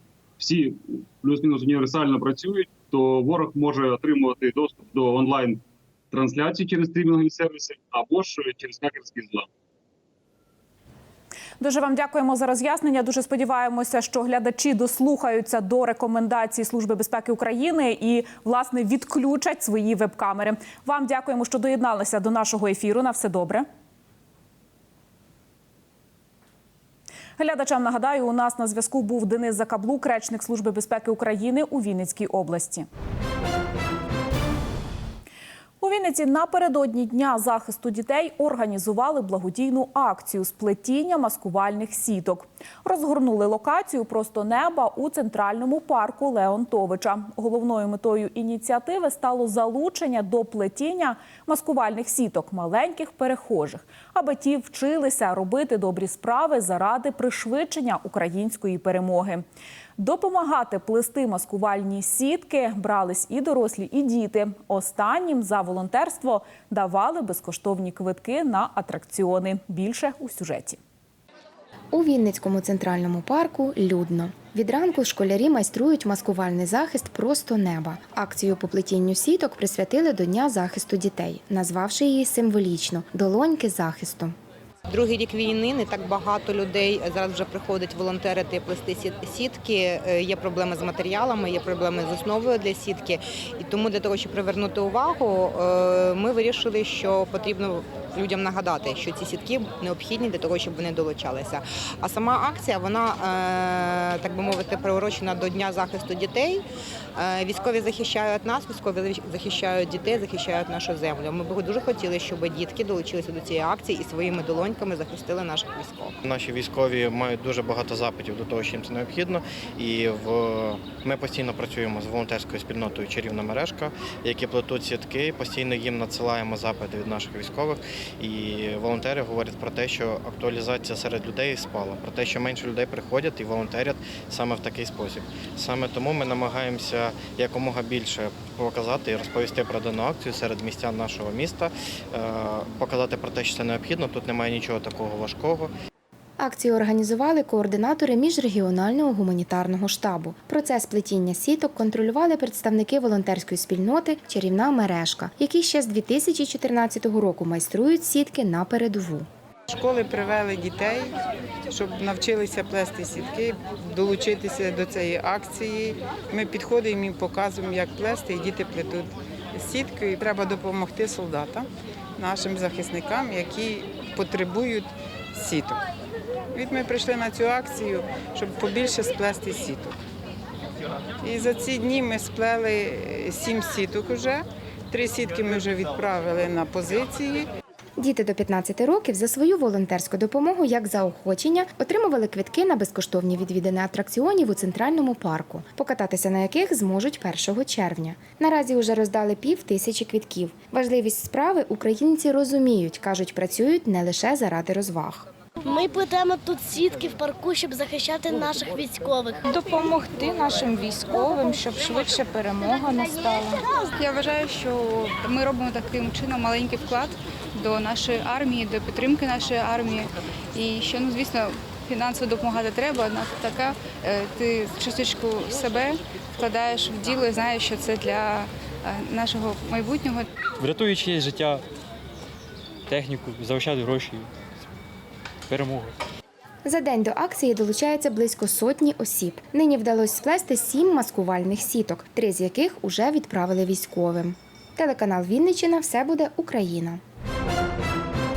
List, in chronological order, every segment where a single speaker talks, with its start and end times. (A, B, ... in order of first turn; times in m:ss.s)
0:00.4-0:05.6 A
0:06.1-0:09.5 A
0:11.6-0:23.6 B
0:27.4-0:32.9 B
0:35.8-0:59.4 B
1:00.0-1:10.8 B
1:11.9-1:24.3 C
1:24.9-1:46.6 D
1:47.2-1:56.1 D
1:56.2-2:25.7 E
2:26.4-2:39.3 C
2:39.7-2:41.1 F
2:41.7-2:51.6 F
2:52.2-2:55.8 F
2:56.5-2:59.9 F
3:01.2-3:07.5 F
3:08.0-3:25.2 C
3:25.6-3:29.3 G
3:29.5-3:33.6 H
3:34.0-3:50.2 I
3:50.6-3:51.6 J
3:52.9-3:54.3 J
3:55.5-3:55.9 J
3:56.6-4:07.0 C